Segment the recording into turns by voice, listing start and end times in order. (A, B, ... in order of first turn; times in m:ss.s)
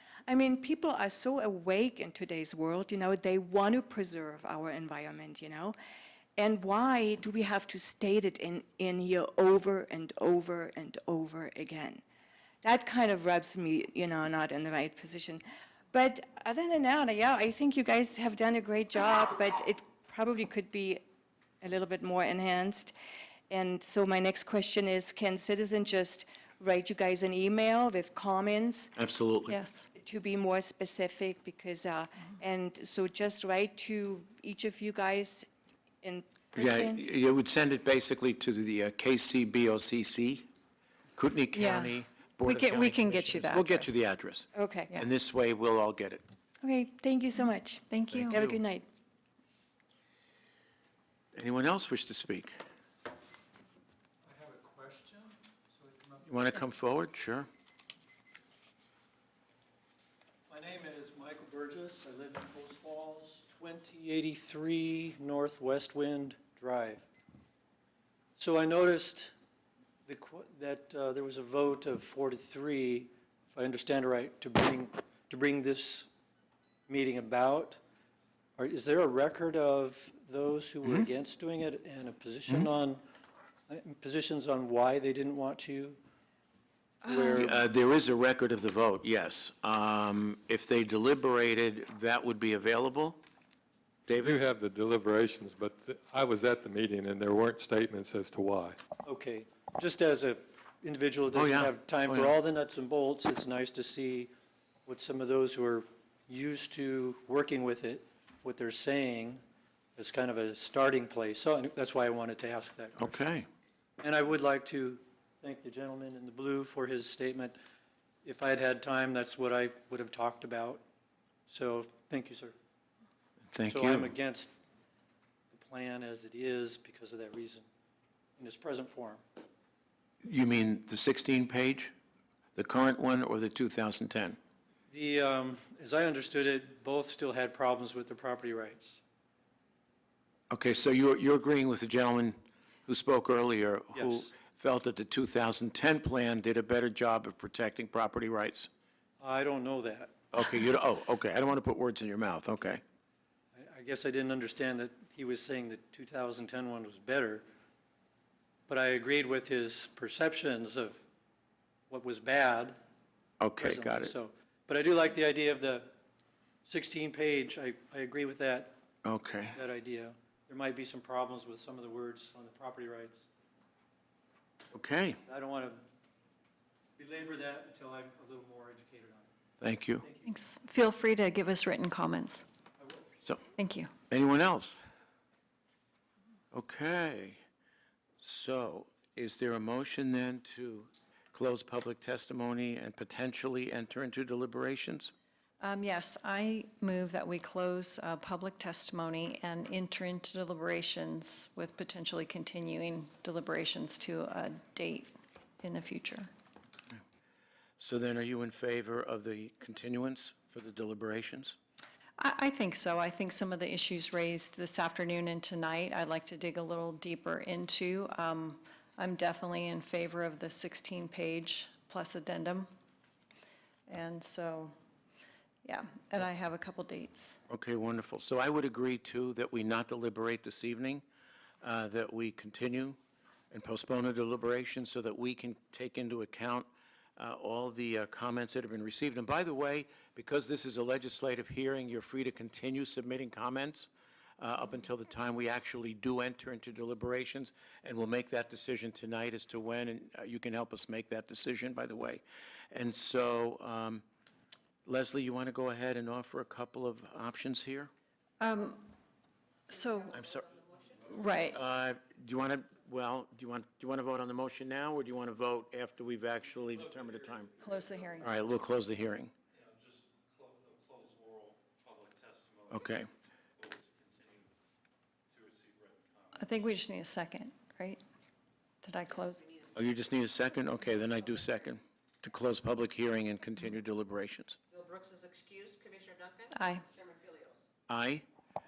0:00.3-0:05.8 A
0:06.4-0:12.0 A
0:12.6-0:21.0 A
0:21.6-0:22.9 A
0:23.5-0:28.9 A
0:29.0-0:29.6 B
0:29.5-0:29.9 C
0:29.9-0:35.5 A
0:36.0-0:37.0 A
0:36.5-0:40.4 B
0:41.2-0:46.2 B
0:41.5-0:44.0 C
0:44.5-0:44.9 A
0:46.6-0:48.8 A
0:47.9-0:48.4 C
0:48.1-0:48.6 B
0:51.3-0:52.5 B
0:54.2-0:56.3 D
0:56.2-0:57.5 B
1:00.5-1:07.0 D
1:08.4-1:09.3 D
1:10.0-1:16.1 D
1:16.9-1:17.8 D
1:18.6-1:23.0 D
1:23.7-1:26.0 D
1:27.0-1:27.5 D
1:27.3-1:33.2 B
1:34.1-1:34.4 B
1:34.1-1:38.8 E
1:39.0-1:44.3 D
1:41.3-1:42.4 B
1:44.8-1:49.4 D
1:50.0-1:53.1 D
1:53.0-1:53.5 B
1:54.0-1:57.6 D
1:58.2-2:00.8 D
2:01.5-2:02.5 D
2:03.5-2:04.1 B
2:03.7-2:04.5 D
2:05.5-2:07.6 D
2:08.4-2:09.2 D
2:10.2-2:11.9 B
2:12.5-2:14.4 B
2:14.9-2:19.0 D
2:20.5-2:28.7 B
2:23.9-2:24.3 D
2:29.2-2:30.1 D
2:30.3-2:32.8 B
2:33.5-2:37.4 D
2:38.7-2:41.0 D
2:41.9-2:42.8 D
2:43.4-2:44.1 B
2:43.6-2:45.9 D
2:46.6-2:48.7 D
2:49.0-2:49.6 B
2:49.5-2:53.3 D
2:54.7-2:55.2 B
2:55.2-2:55.8 D
2:57.0-2:59.3 D
2:59.6-3:00.0 B
3:00.0-3:00.4 D
3:00.2-3:02.5 C
3:02.8-3:03.1 D
3:03.6-3:03.9 C
3:04.1-3:04.8 B
3:06.5-3:07.4 B
3:08.2-3:15.1 B
3:15.6-3:26.3 C
3:27.8-3:31.6 B
3:32.2-3:42.7 C
3:43.9-3:44.7 C
3:45.6-3:47.4 C
3:47.5-3:51.0 B
3:51.6-3:53.0 B
3:53.5-4:14.0 B
4:14.8-4:17.9 B
4:18.4-4:18.9 C
4:19.7-4:20.2 C
4:20.2-4:20.6 B
4:21.0-4:21.6 C
4:21.4-4:27.6 B
4:27.6-4:28.3 C
4:28.2-4:29.3 B
4:29.5-4:33.0 D
4:32.7-4:33.1 B
4:33.6-4:34.5 D
4:35.3-4:36.4 D
4:36.3-4:38.0 C
4:38.8-4:39.5 C
4:39.7-4:44.6 B
4:44.7-4:46.4 F
4:46.5-4:46.8 C
4:47.0-4:47.5 F
4:47.9-4:48.2 B